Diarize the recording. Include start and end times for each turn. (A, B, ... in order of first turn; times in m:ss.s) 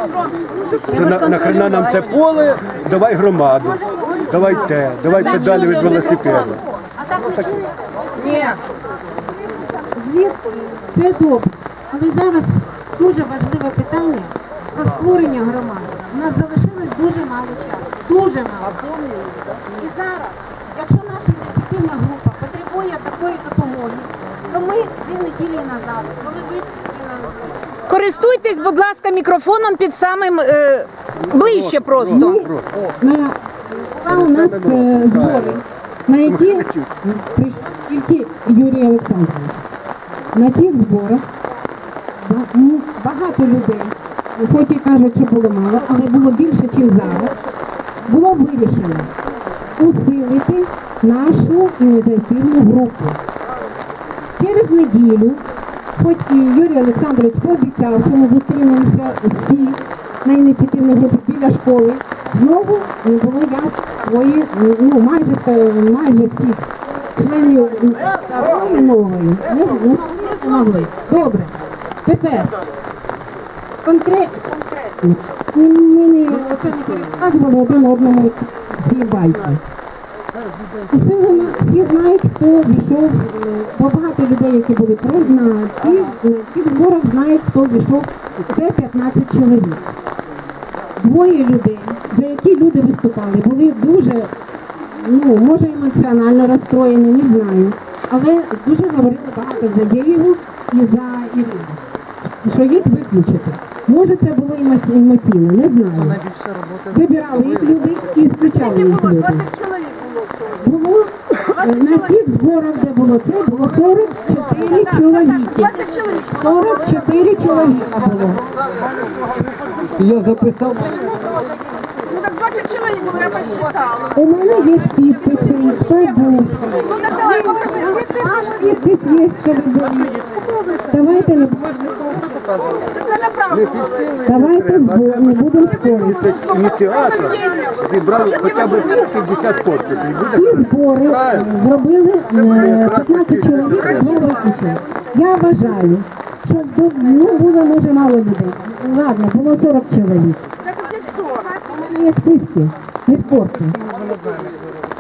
0:00.6-0:02.2 A
0:00.9-0:06.6 B
0:03.7-0:05.0 C
0:05.0-0:06.7 A
0:07.0-0:07.5 C
0:07.2-0:07.6 B
0:08.2-0:08.6 A
0:09.8-0:18.8 C
0:19.7-0:27.6 C
0:27.9-0:32.5 A
0:32.1-0:39.6 C
0:34.4-0:34.8 B
0:40.3-0:41.2 C
0:42.2-0:47.3 C
0:48.0-0:49.1 C
0:49.8-0:53.2 C
0:54.4-0:55.4 C
0:56.0-1:06.6 C
1:07.2-1:12.5 C
1:13.8-1:19.6 C
1:20.9-1:29.8 C
1:31.0-1:34.3 C
1:34.9-1:41.8 C
1:42.4-1:46.2 C
1:46.9-1:49.5 C
1:50.6-1:58.4 C
2:00.0-2:00.9 A
2:00.1-2:00.8 D
2:02.6-2:03.6 D
2:04.1-2:10.2 C
2:10.9-2:12.2 C
2:13.0-2:13.4 D
2:13.5-2:14.1 B
2:14.2-2:16.4 C
2:16.4-2:20.3 B
2:17.5-2:17.9 D
2:20.2-2:30.4 C
2:31.5-2:33.8 C
2:34.0-2:34.5 D